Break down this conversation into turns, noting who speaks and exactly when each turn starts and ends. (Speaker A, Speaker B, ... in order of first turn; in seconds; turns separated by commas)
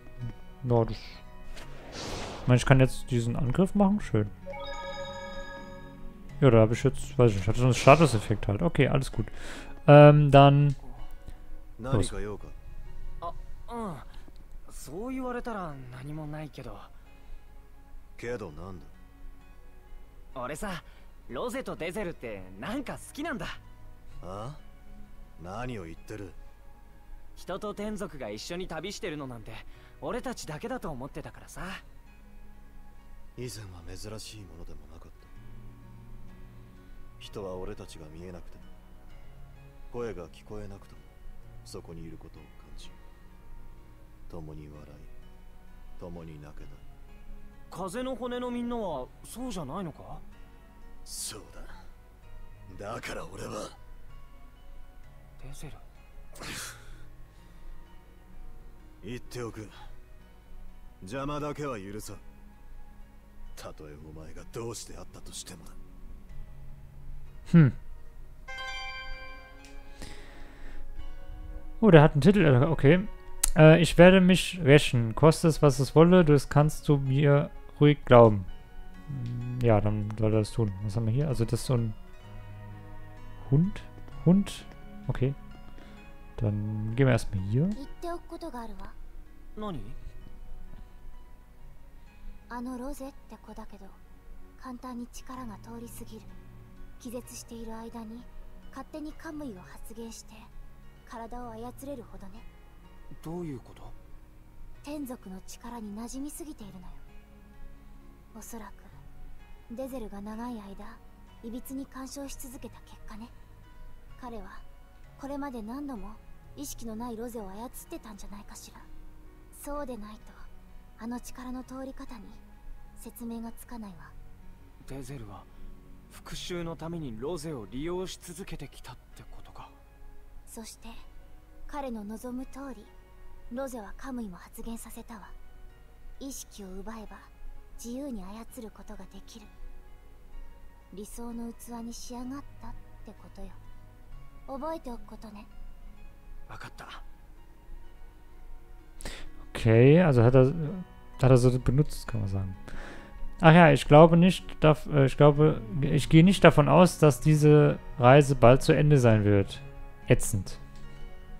Speaker A: 0.2-1.2, Speaker A: 2.5-4.3, Speaker A: 6.4-10.8, Speaker B: 11.8-12.6, Speaker C: 13.2-14.1, Speaker C: 14.7-16.9, Speaker B: 18.2-18.9, Speaker C: 20.3-23.6, Speaker B: 24.2-24.6, Speaker B: 25.4-26.4, Speaker C: 27.4-31.8, Speaker B: 33.4-35.3, Speaker B: 37.2-38.7, Speaker B: 39.9-41.1, Speaker B: 41.6-43.0, Speaker B: 44.3-45.1, Speaker B: 46.0-46.8, Speaker C: 47.7-50.2, Speaker B: 51.0-51.8, Speaker B: 52.7-53.8, Speaker C: 55.4-55.8, Speaker B: 59.0-59.7, Speaker B: 61.0-62.2, Speaker B: 63.5-65.8, Speaker A: 67.5-67.8, Speaker A: 71.8-78.5, Speaker A: 79.1-82.0, Speaker A: 83.4-85.4, Speaker A: 86.4-87.8, Speaker D: 87.8-89.0, Speaker C: 89.6-90.0, Speaker D: 92.5-94.0, Speaker D: 94.6-96.3, Speaker D: 97.0-100.5, Speaker D: 101.1-102.5, Speaker C: 103.2-104.0, Speaker D: 104.8-107.0, Speaker D: 108.3-108.9, Speaker D: 109.7-113.3, Speaker D: 114.2-114.6, Speaker D: 115.2-118.9, Speaker D: 119.5-122.4, Speaker D: 123.0-124.1, Speaker C: 124.8-125.5, Speaker C: 126.1-129.8, Speaker D: 130.5-131.1, Speaker D: 131.7-132.9, Speaker D: 133.5-135.3, Speaker D: 136.2-139.5, Speaker D: 140.9-143.6, Speaker D: 144.5-145.5, Speaker C: 146.5-147.0, Speaker A: 149.4-160.6